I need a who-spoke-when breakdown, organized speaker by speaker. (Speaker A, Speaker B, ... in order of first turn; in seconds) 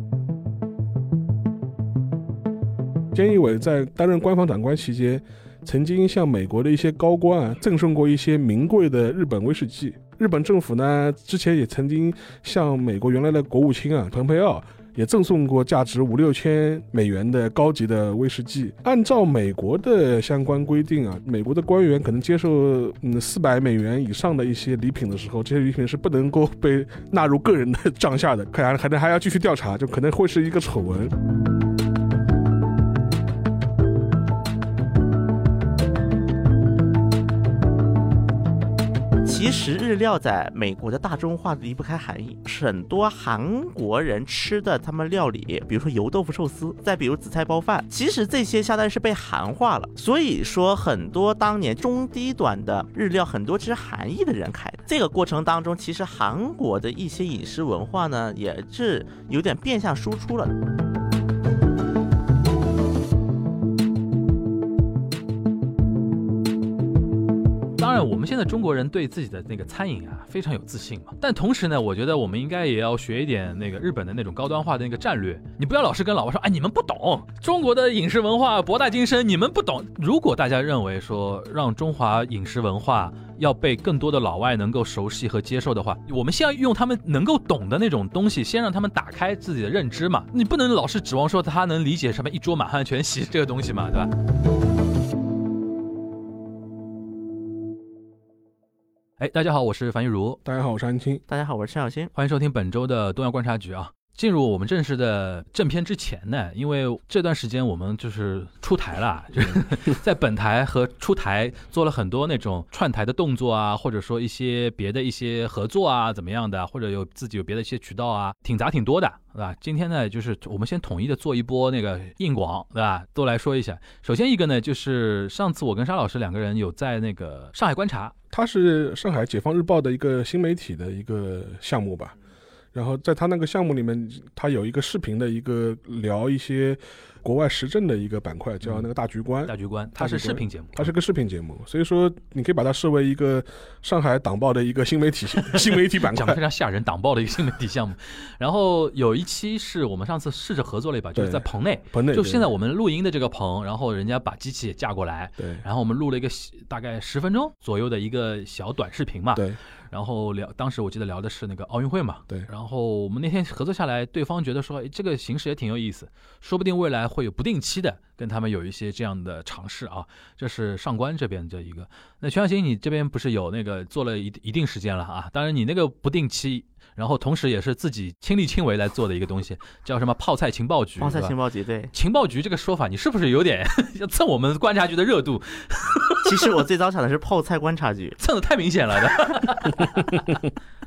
Speaker A: 3.1-31.1, 100.5-101.2, 128.3-132.2, 132.7-146.4, 151.2-152.5
Speaker B: 39.2-60.6, 101.3-102.1, 181.0-181.9, 186.2-188.2
Speaker C: 67.8-94.1, 99.2-100.4, 102.2-128.1, 139.5-140.9, 145.4-181.3, 181.9-186.4, 188.2-190.3